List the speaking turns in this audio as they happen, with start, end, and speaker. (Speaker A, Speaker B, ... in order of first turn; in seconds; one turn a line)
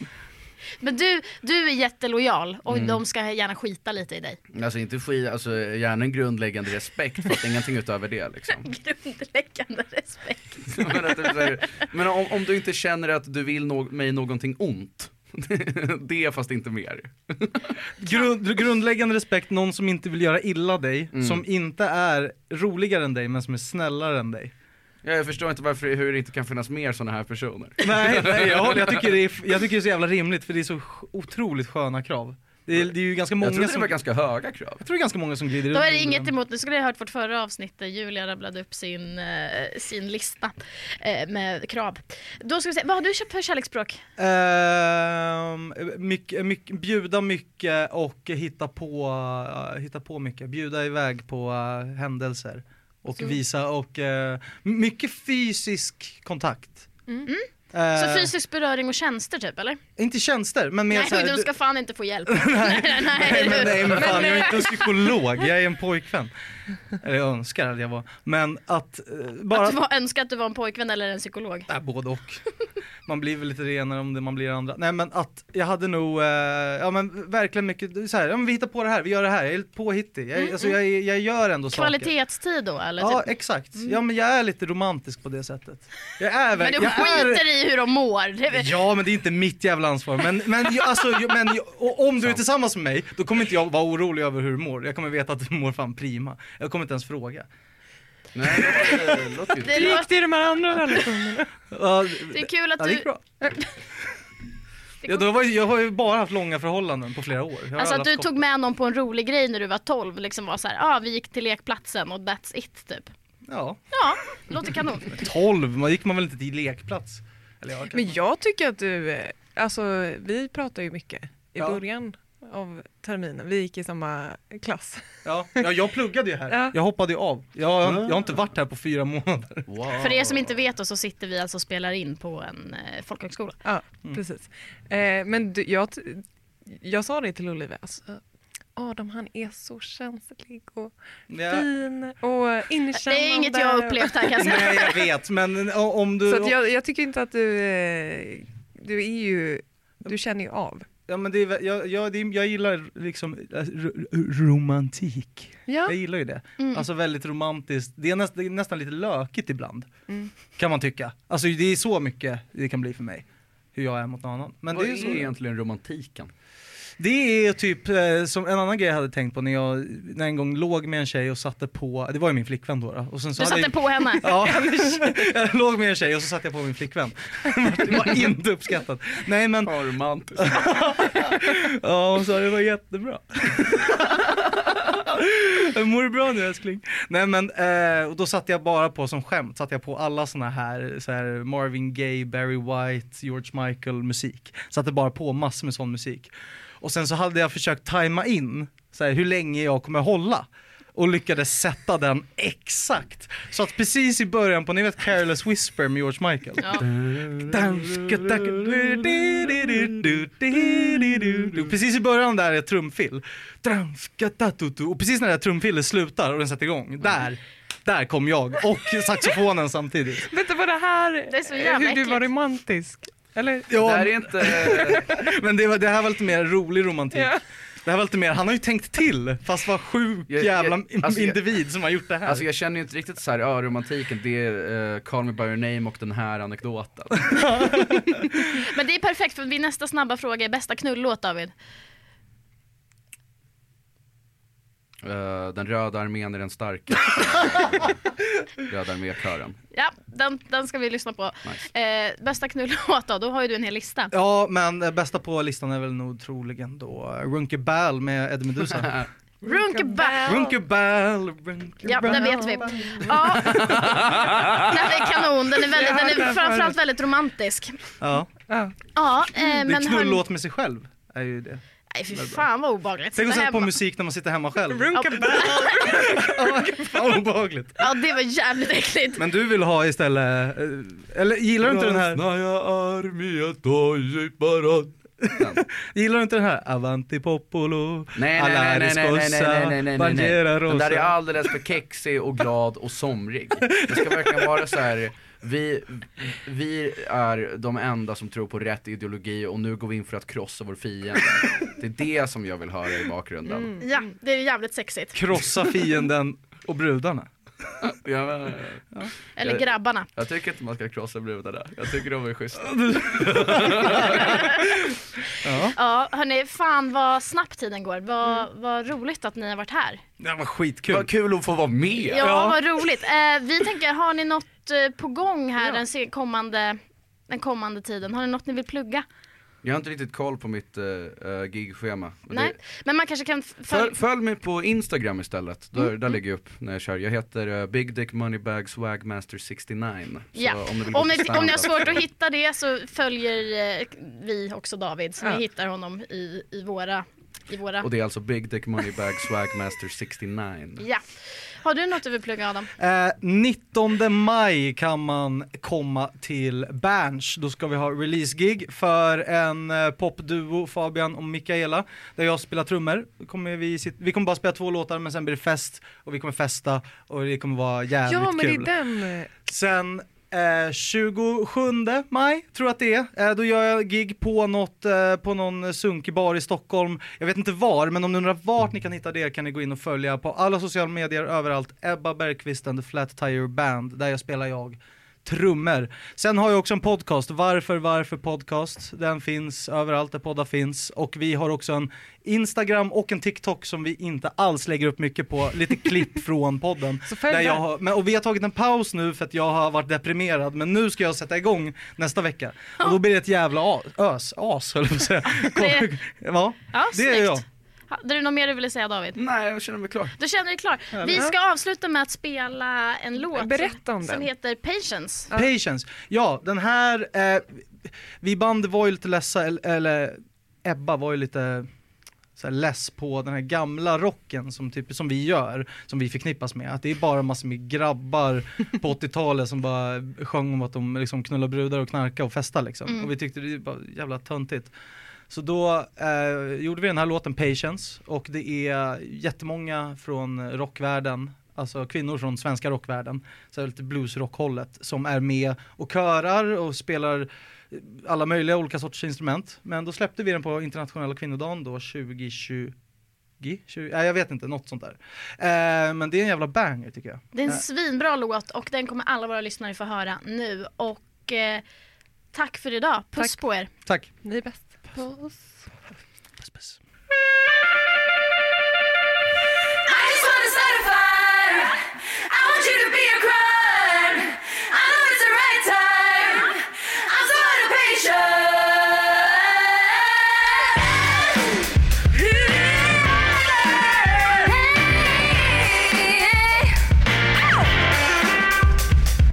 Speaker A: 0.8-4.4
Speaker B: 2.7-3.0
Speaker B: 4.5-8.7
Speaker A: 8.6-11.5
Speaker B: 10.7-17.8
Speaker C: 18.0-24.5
Speaker B: 21.1-21.4
Speaker B: 25.0-29.1
Speaker C: 27.8-34.0
Speaker B: 33.4-34.8
Speaker C: 34.8-36.3
Speaker A: 35.7-44.0
Speaker C: 44.2-56.9
Speaker A: 57.2-59.8
Speaker C: 57.7-58.3
Speaker C: 60.0-61.5
Speaker A: 60.9-64.9
Speaker C: 62.3-66.3
Speaker C: 66.9-69.8
Speaker A: 69.5-71.7
Speaker C: 71.7-72.4
Speaker C: 73.0-82.1
Speaker A: 80.4-80.8
Speaker A: 81.7-83.9
Speaker C: 83.0-87.5
Speaker A: 86.6-88.7
Speaker C: 88.5-97.5
Speaker B: 98.3-100.0
Speaker C: 98.5-99.3
Speaker A: 99.6-100.1
Speaker D: 99.7-101.5
Speaker C: 101.7-103.2
Speaker A: 102.3-103.1
Speaker C: 105.0-108.4
Speaker A: 107.8-113.1
Speaker C: 113.5-113.8
Speaker A: 113.9-115.2
Speaker C: 115.0-118.2
Speaker D: 117.9-125.0
Speaker C: 121.6-121.8
Speaker C: 125.2-129.7
Speaker D: 126.5-126.7
Speaker B: 127.8-128.2
Speaker B: 129.7-130.5
Speaker A: 129.9-133.6
Speaker D: 133.6-138.2
Speaker D: 138.8-140.9
Speaker C: 141.3-141.7
Speaker D: 141.5-144.4
Speaker A: 143.0-145.1
Speaker C: 144.3-146.6
Speaker D: 146.2-150.9
Speaker C: 151.1-159.9
Speaker D: 155.7-155.9
Speaker A: 156.6-156.8
Speaker C: 160.5-165.3
Speaker B: 164.7-166.3
Speaker C: 167.0-179.7
Speaker A: 173.4-174.9
Speaker B: 177.8-178.3
Speaker B: 179.6-180.7
Speaker C: 180.3-184.3
Speaker C: 184.9-220.3
Speaker B: 206.8-209.9
Speaker B: 211.3-211.6
Speaker D: 220.2-223.8
Speaker A: 221.3-222.3
Speaker C: 223.7-232.4
Speaker B: 223.7-225.2
Speaker D: 227.1-227.4
Speaker B: 230.3-231.4
Speaker B: 232.2-237.7
Speaker C: 237.3-238.2
Speaker A: 238.4-241.5
Speaker B: 245.0-249.6
Speaker A: 249.7-254.1
Speaker C: 254.1-259.0
Speaker A: 259.4-260.4
Speaker D: 259.7-260.5
Speaker C: 260.2-264.5
Speaker A: 261.8-267.8
Speaker D: 262.0-263.1
Speaker B: 263.7-264.7
Speaker D: 265.6-266.8
Speaker C: 268.0-268.3
Speaker D: 268.5-268.7
Speaker A: 268.9-270.2
Speaker C: 269.3-272.4
Speaker A: 271.9-273.7
Speaker C: 273.1-277.9
Speaker D: 274.7-276.3
Speaker A: 274.9-276.1
Speaker A: 277.8-279.2
Speaker C: 279.2-282.2
Speaker B: 281.6-285.6
Speaker C: 285.4-291.1
Speaker B: 288.1-303.8
Speaker C: 293.7-294.6
Speaker D: 303.4-303.9
Speaker A: 303.8-305.2
Speaker C: 305.1-307.3
Speaker B: 307.8-308.9
Speaker A: 309.4-310.1
Speaker B: 309.4-314.4
Speaker C: 312.6-314.6
Speaker A: 314.1-314.7
Speaker C: 315.4-315.8
Speaker A: 315.6-320.0
Speaker C: 320.2-321.1
Speaker B: 320.9-322.3
Speaker A: 322.1-329.0
Speaker C: 322.1-322.8
Speaker B: 329.6-332.6
Speaker A: 332.3-333.9
Speaker B: 333.7-342.0
Speaker A: 340.3-347.9
Speaker B: 347.8-350.8
Speaker A: 350.8-351.0
Speaker A: 351.6-352.7
Speaker C: 352.8-368.7
Speaker D: 368.1-369.3
Speaker C: 369.4-407.4
Speaker D: 397.1-397.6
Speaker A: 405.3-405.9
Speaker A: 406.7-409.2
Speaker B: 409.1-410.1
Speaker A: 410.2-415.3
Speaker C: 410.9-411.3
Speaker D: 413.2-414.3
Speaker C: 415.3-421.7
Speaker C: 422.4-434.7
Speaker C: 435.3-452.8
Speaker C: 453.4-457.6
Speaker A: 457.3-461.6
Speaker A: 462.3-463.7
Speaker D: 464.2-465.6
Speaker C: 466.4-466.8
Speaker E: 469.9-486.9
Speaker E: 487.5-487.9